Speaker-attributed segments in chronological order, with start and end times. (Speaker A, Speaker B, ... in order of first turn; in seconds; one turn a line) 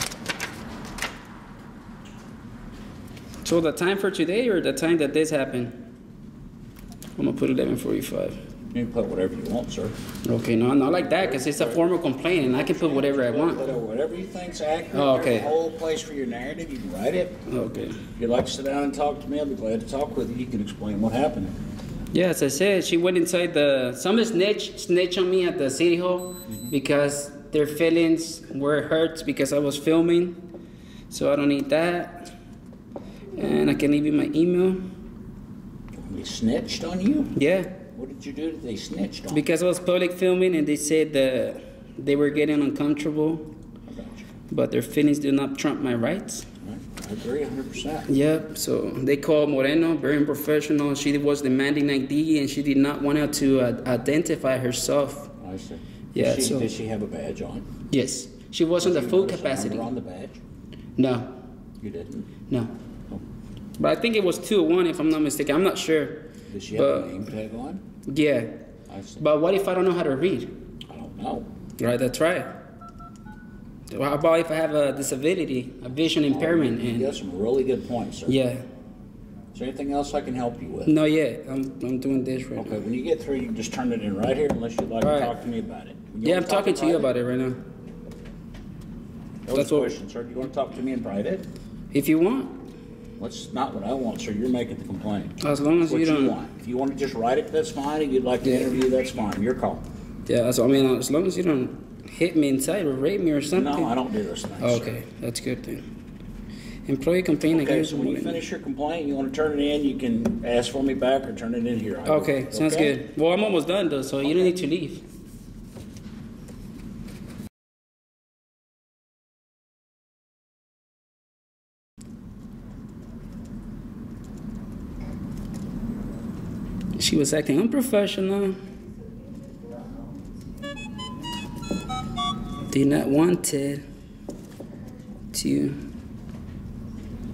Speaker A: 3.4-5.8
Speaker A: 7.2-8.4
Speaker B: 8.7-9.9
Speaker A: 10.2-13.7
Speaker B: 11.0-17.4
Speaker A: 14.9-15.5
Speaker A: 17.5-18.0
Speaker B: 18.1-21.5
Speaker A: 22.1-30.4
Speaker A: 31.1-32.3
Speaker A: 33.4-34.9
Speaker B: 36.0-37.3
Speaker A: 37.3-37.8
Speaker B: 37.9-39.4
Speaker A: 39.3-43.5
Speaker B: 43.9-44.2
Speaker A: 44.5-46.5
Speaker B: 46.6-48.1
Speaker A: 48.1-55.3
Speaker B: 55.4-57.7
Speaker A: 56.1-56.7
Speaker A: 57.9-59.9
Speaker B: 58.8-60.4
Speaker A: 61.0-61.4
Speaker B: 61.8-62.3
Speaker A: 62.5-62.7
Speaker A: 63.8-67.3
Speaker B: 66.5-67.8
Speaker A: 68.0-68.6
Speaker B: 68.9-69.2
Speaker A: 69.2-70.5
Speaker B: 70.9-71.5
Speaker A: 71.8-72.5
Speaker A: 73.9-77.2
Speaker B: 76.3-78.4
Speaker A: 78.3-78.6
Speaker B: 79.5-80.9
Speaker A: 80.8-82.8
Speaker B: 82.5-87.1
Speaker A: 85.0-85.3
Speaker A: 86.2-87.6
Speaker B: 89.5-91.5
Speaker A: 89.5-89.9
Speaker A: 91.9-92.6
Speaker B: 93.2-95.3
Speaker A: 95.4-96.4
Speaker B: 95.8-99.8
Speaker A: 98.4-98.8
Speaker A: 100.3-103.9
Speaker B: 103.5-105.0
Speaker A: 104.6-105.9
Speaker A: 106.8-108.4
Speaker B: 107.5-113.0
Speaker A: 112.0-115.0
Speaker B: 114.2-114.5
Speaker A: 127.0-128.6
Speaker A: 132.7-133.8
Speaker A: 135.3-135.8